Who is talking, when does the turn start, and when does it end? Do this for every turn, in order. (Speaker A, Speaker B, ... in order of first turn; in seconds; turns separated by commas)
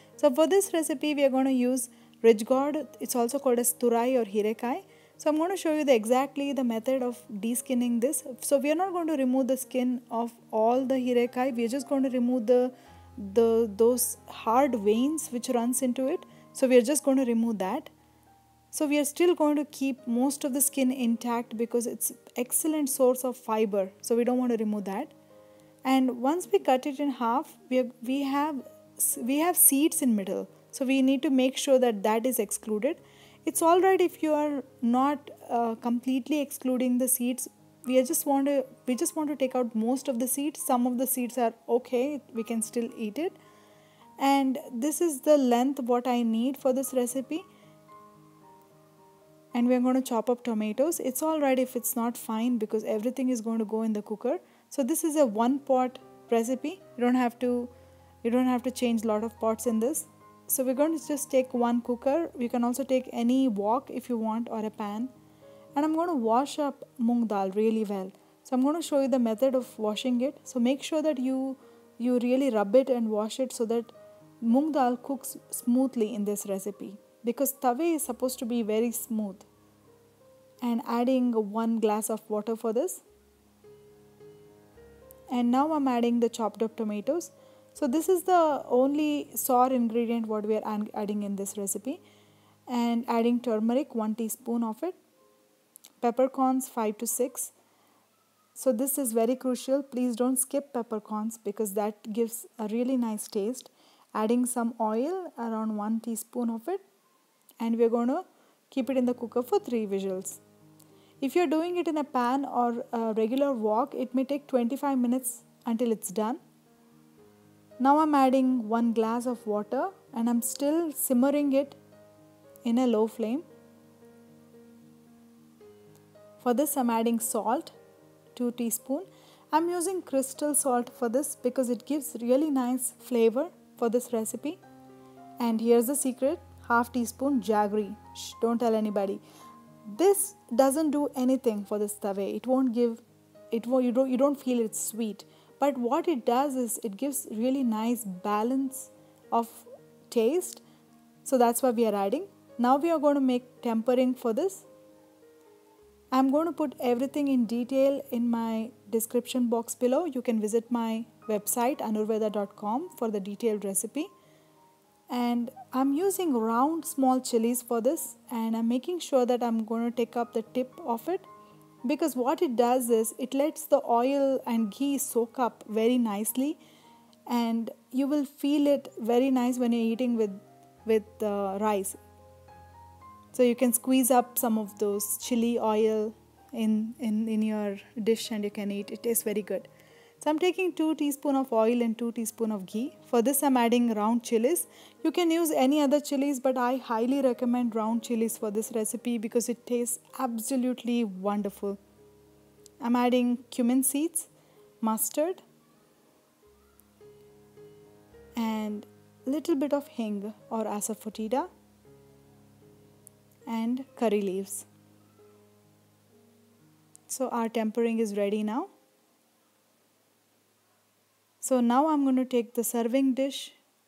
Speaker A: 0.2-17.9, Speaker A: 18.7-25.1, Speaker A: 25.8-43.4, Speaker A: 44.2-47.5, Speaker A: 49.5-57.7, Speaker A: 58.2-65.1, Speaker A: 65.8-79.5, Speaker A: 80.6-83.0, Speaker A: 85.3-92.0, Speaker A: 92.7-95.0, Speaker A: 96.0-97.5, Speaker A: 98.5-106.8, Speaker A: 107.6-110.4, Speaker A: 111.2-116.4, Speaker A: 117.8-121.8, Speaker A: 122.6-123.5, Speaker A: 126.4-127.8, Speaker A: 128.3-134.6, Speaker A: 135.4-139.2, Speaker A: 139.9-150.6, Speaker A: 151.2-154.7, Speaker A: 156.1-164.1, Speaker A: 165.1-171.3, Speaker A: 171.8-176.6, Speaker A: 177.3-182.0, Speaker A: 183.3-189.7, Speaker A: 190.2-201.8, Speaker A: 202.8-204.3, Speaker A: 204.8-205.4, Speaker A: 208.4-211.5, Speaker A: 213.5-214.7, Speaker A: 217.1-218.7, Speaker A: 221.4-223.6